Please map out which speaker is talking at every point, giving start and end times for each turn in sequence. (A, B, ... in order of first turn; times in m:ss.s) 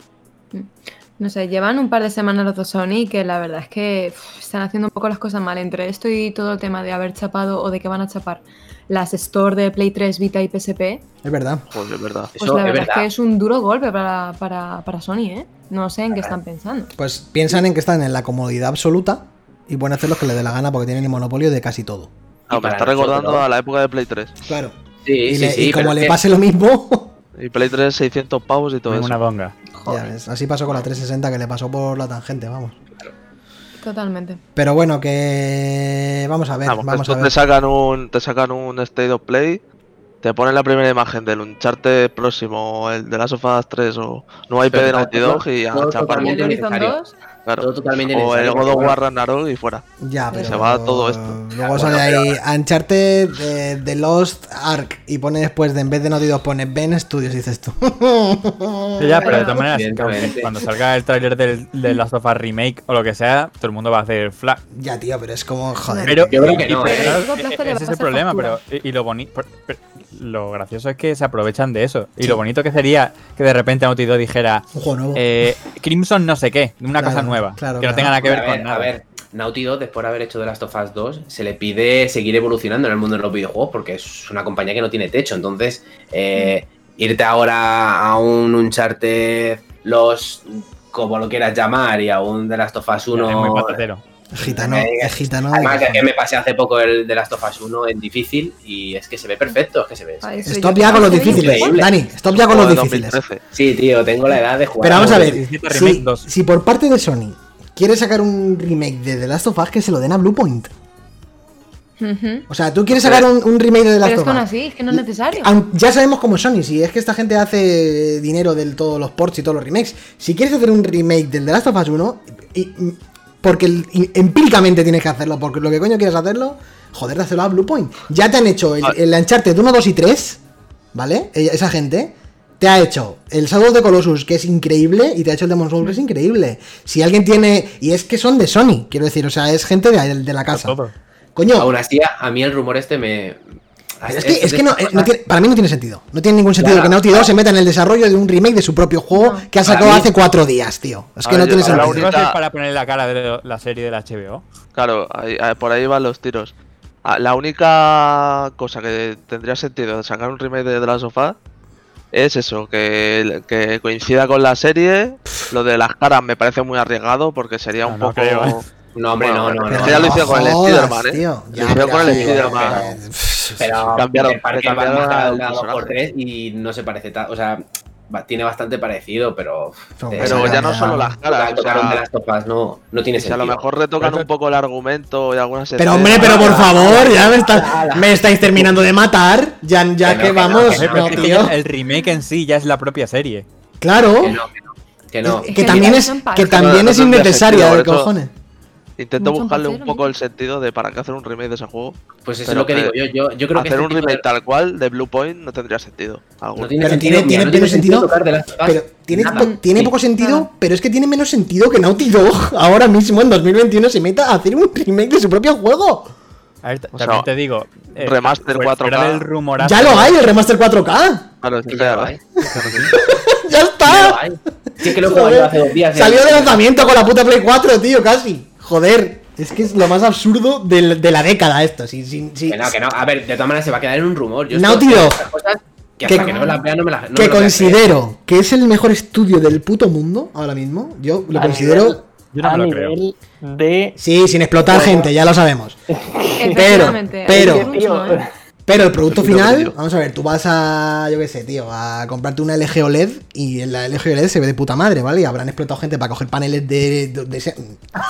0:00.5-0:11.0 A
0:11.2-0:11.6 B
0:11.7-0:12.3 C
0:12.4-0:13.1 D
0:12.4-0:16.9 A
0:17.0-0:22.1 B
0:22.5-0:24.4 C
0:22.5-0:23.4 D
0:24.4-0:27.1 B
0:25.0-0:26.2 D
0:27.4-0:29.2 C
0:28.9-0:29.6 E
0:29.7-0:30.0 A
0:29.8-0:32.8 B
0:33.8-0:34.4 A
0:34.6-0:37.3 B
0:36.6-0:39.6 C
0:40.2-0:46.6 C
0:44.7-0:47.0 D
0:46.1-0:47.2 A
0:47.4-0:51.8 C
0:47.6-0:49.0 D
0:50.0-0:59.4 B
0:51.6-0:52.3 D
0:59.0-1:04.6 E
0:59.2-0:59.7 A
0:59.2-1:00.5 D
1:04.7-1:06.9 B
1:05.9-1:08.6 A
1:06.0-1:18.9 E
1:06.3-1:07.2 D
1:14.7-1:15.3 B
1:17.0-1:18.2 B
1:18.2-1:33.8 D
1:33.1-1:34.0 E
1:34.3-1:36.0 B
1:34.4-1:41.9 D
1:40.2-1:41.8 A
1:40.4-1:43.2 B
1:42.3-1:43.4 C
1:43.5-1:45.4 D
1:44.8-1:50.7 B
1:44.9-1:46.2 E
1:52.0-1:52.4 A
1:52.5-2:10.4 B
1:52.9-1:53.2 C
1:54.0-1:55.5 A
2:10.9-2:20.8 B
2:20.5-2:20.9 E
2:21.4-2:21.7 B
2:21.6-2:23.4 D
2:24.0-2:25.1 D
2:24.1-2:32.1 B
2:26.6-2:27.3 D
2:29.1-2:29.5 A
2:29.6-2:30.1 D
2:31.2-2:32.4 C
2:31.6-2:32.1 D
2:31.6-2:34.4 E
2:34.7-2:41.4 C
2:42.1-2:48.6 C
2:47.8-2:48.6 E
2:48.9-2:50.5 D
2:49.2-2:52.8 C
2:49.7-2:54.0 B
2:51.7-2:53.0 D
2:53.6-3:03.6 D
2:54.0-2:55.9 C
3:00.0-3:01.2 B
3:00.2-3:02.0 C
3:03.2-3:07.3 C
3:04.0-3:04.3 E
3:05.8-3:11.6 B
3:06.1-3:08.7 D
3:10.0-3:11.5 D
3:10.6-3:13.5 E
3:11.9-3:12.2 A
3:13.8-3:14.4 B
3:14.2-3:15.9 D
3:15.2-3:18.3 B
3:15.4-3:16.6 A
3:16.4-3:18.1 C
3:19.0-3:22.9 C
3:19.2-3:20.1 A
3:22.2-3:24.2 D
3:23.5-3:27.0 C
3:26.6-3:30.0 D
3:26.8-3:36.1 B
3:29.3-3:29.6 A
3:30.2-3:30.5 A
3:36.6-3:40.2 E
3:36.9-3:37.3 C
3:38.0-3:39.2 C
3:39.6-3:41.3 B
3:41.4-3:42.9 C
3:41.7-3:43.0 D
3:42.4-3:52.8 B
3:43.8-3:46.9 D
3:52.5-3:57.9 D
3:54.5-3:55.3 B
3:56.0-3:56.5 B
3:56.1-3:56.6 A
3:57.1-4:02.0 B
4:01.3-4:04.0 F
4:02.3-4:03.0 E
4:04.0-4:05.8 B
4:04.6-4:05.1 F
4:05.9-4:08.3 F
4:06.4-4:08.2 A
4:06.5-4:07.8 B
4:08.7-4:17.8 B
4:09.1-4:09.7 C